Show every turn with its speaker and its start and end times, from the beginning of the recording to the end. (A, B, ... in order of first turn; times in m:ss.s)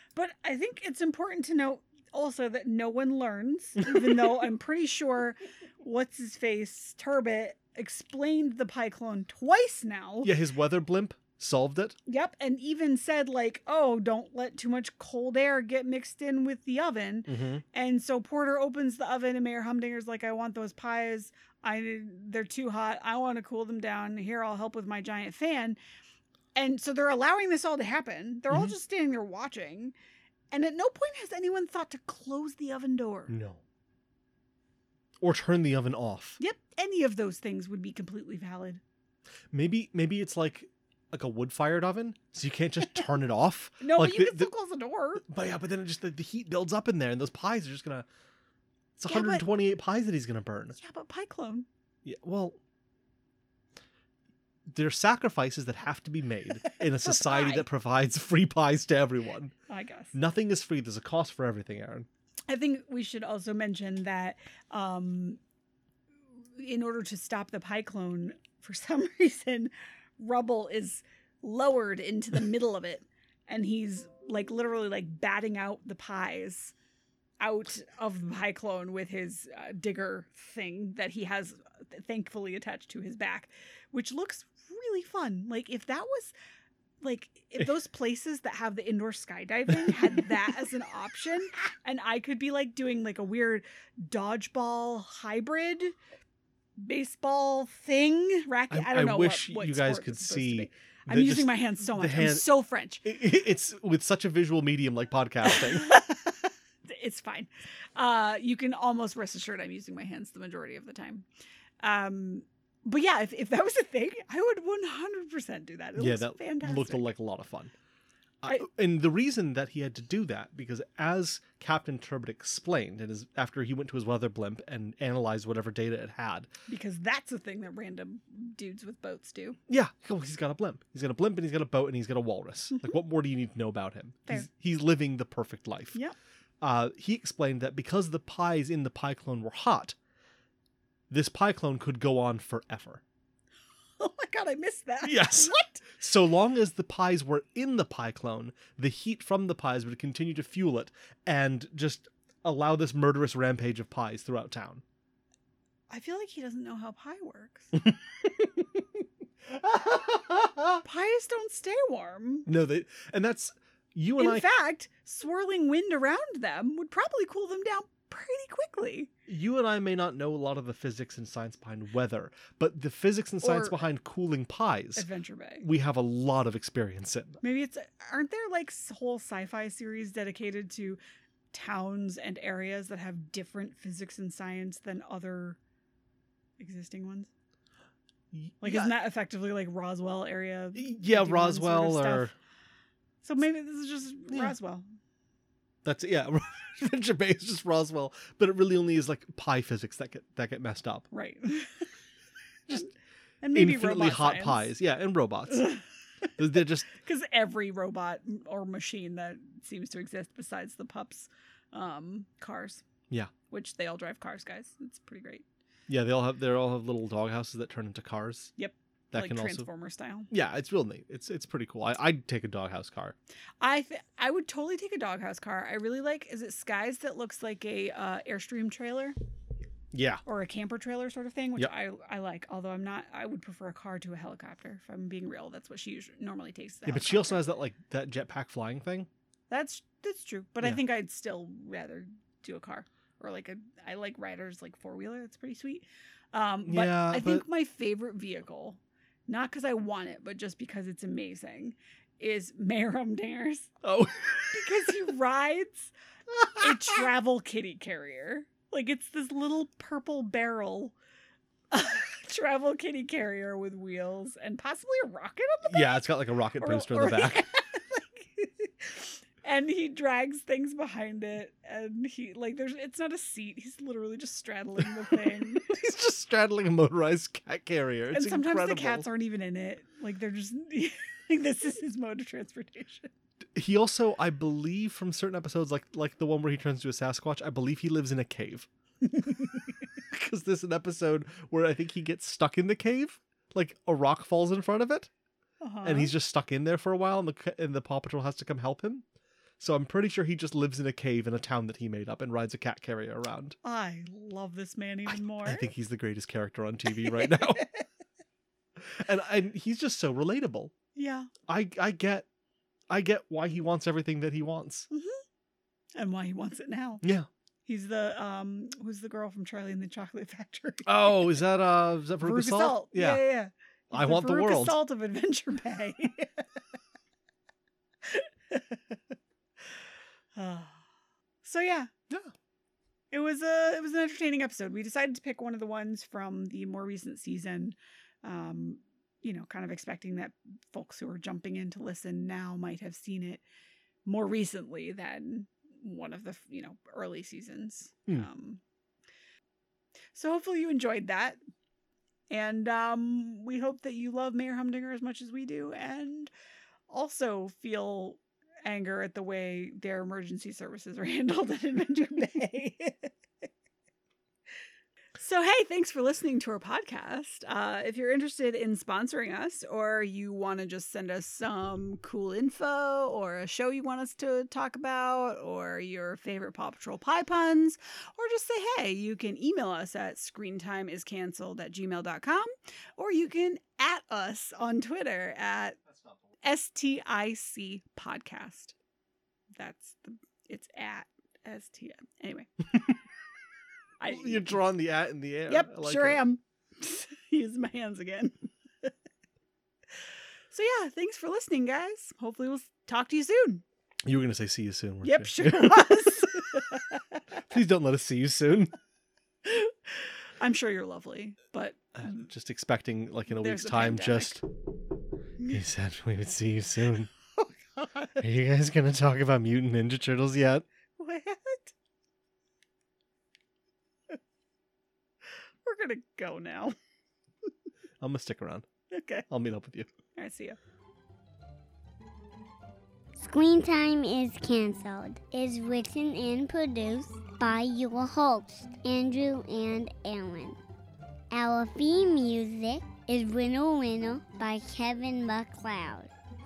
0:00.1-0:10.3 A
0:03.8-0:04.3 B
0:10.2-0:12.0 B
0:12.1-0:25.8 A
0:17.3-0:17.6 B
0:26.5-0:29.9 A
0:30.5-0:33.3 A
0:33.3-0:33.6 B
0:35.2-0:36.4 B
0:36.4-0:38.8 A
0:39.5-0:44.5 B
0:43.8-0:45.2 A
0:45.2-0:48.0 B
0:49.0-0:50.8 B
0:49.1-0:49.4 A
0:50.8-0:51.6 A
0:52.0-0:52.6 B
0:54.7-0:59.5 B
0:56.7-0:57.6 A
0:59.7-1:00.1 A
1:00.1-1:02.1 B
1:02.5-1:05.4 A
1:06.6-1:16.7 A
1:17.4-1:26.3 A
1:27.0-1:36.0 A
1:29.8-1:30.1 B
1:36.8-1:43.0 A
1:38.7-1:42.4 B
1:43.0-1:45.9 B
1:45.5-1:51.2 A
1:51.8-1:57.0 A
1:56.0-1:57.7 B
1:58.4-2:06.5 B
2:06.7-2:09.6 A
2:09.7-2:16.0 B
2:16.6-2:19.9 B
2:21.1-2:23.0 B
2:24.0-2:25.9 A
2:25.0-2:34.8 B
2:35.9-2:37.7 A
2:38.2-2:38.8 B
2:39.5-2:40.8 B
2:40.8-2:42.5 A
2:42.4-2:44.4 B
2:44.2-2:49.1 A
2:49.3-2:55.1 B
2:53.4-2:53.8 A
2:55.0-2:55.7 A
2:55.6-2:57.4 B
2:57.4-3:01.0 A
3:01.5-3:05.6 A
3:06.6-3:07.3 A
3:08.3-3:08.9 B
3:08.6-3:12.3 A
3:10.7-3:12.3 B
3:13.2-3:14.8 A
3:15.8-3:21.1 B
3:21.1-3:21.8 A
3:23.4-3:24.7 A
3:23.5-3:25.7 B
3:25.5-3:26.3 A
3:26.4-3:26.9 B
3:26.9-3:32.8 A
3:33.5-3:35.4 A
3:35.9-3:38.5 B
3:38.6-3:40.3 A
3:39.1-3:39.7 B
3:40.3-3:43.2 B
3:43.6-3:49.2 A
3:49.9-3:50.2 B
3:50.2-3:57.4 A
3:56.9-3:59.1 B
3:59.5-4:13.7 A
4:06.6-4:07.4 B
4:13.8-4:14.9 B
4:14.5-4:15.9 A
4:16.3-4:17.0 B
4:16.6-4:20.9 A
4:21.7-4:26.0 A
4:25.7-4:27.5 B
4:26.6-4:35.7 A
4:35.1-4:39.1 B
4:38.1-4:43.1 A
4:43.5-4:48.7 B
4:50.1-4:55.1 B
4:55.6-4:56.1 A
4:55.8-4:59.0 B
4:59.6-5:03.6 B
5:03.6-5:05.7 A
5:05.4-5:07.7 B
5:07.3-5:07.6 A
5:08.8-5:10.7 B
5:10.9-5:11.3 A
5:11.5-5:12.2 B
5:12.9-5:14.9 B
5:14.9-5:15.2 A
5:15.9-5:17.0 A
5:17.0-5:17.3 B
5:17.6-5:21.4 A
5:20.8-5:23.2 B
5:22.2-5:26.4 A
5:23.9-5:24.8 B
5:28.0-5:29.0 A
5:30.3-5:30.8 A
5:31.4-5:31.9 A
5:33.1-5:43.4 A
5:44.0-5:48.6 A
5:50.1-5:51.4 A
5:52.3-5:56.3 A
5:56.9-6:03.1 A
6:05.2-6:25.8 A
6:26.4-6:28.7 A
6:29.5-6:32.5 A
6:34.0-6:34.6 A
6:34.1-6:36.2 B
6:35.5-6:38.9 A
6:40.5-6:43.6 A
6:44.0-6:46.6 B
6:45.0-6:46.8 A
6:47.5-6:48.7 B
6:49.4-6:52.2 A
6:52.0-6:54.4 B
6:53.3-6:54.4 A
6:55.5-6:57.1 B
6:57.4-6:58.2 A
6:58.2-7:00.6 B
7:01.0-7:01.7 A
7:05.6-7:06.7 A
7:08.0-7:08.6 B
7:08.9-7:09.2 A
7:09.3-7:09.9 B
7:10.1-7:10.6 A
7:13.2-7:20.6 C
7:21.3-7:26.1 C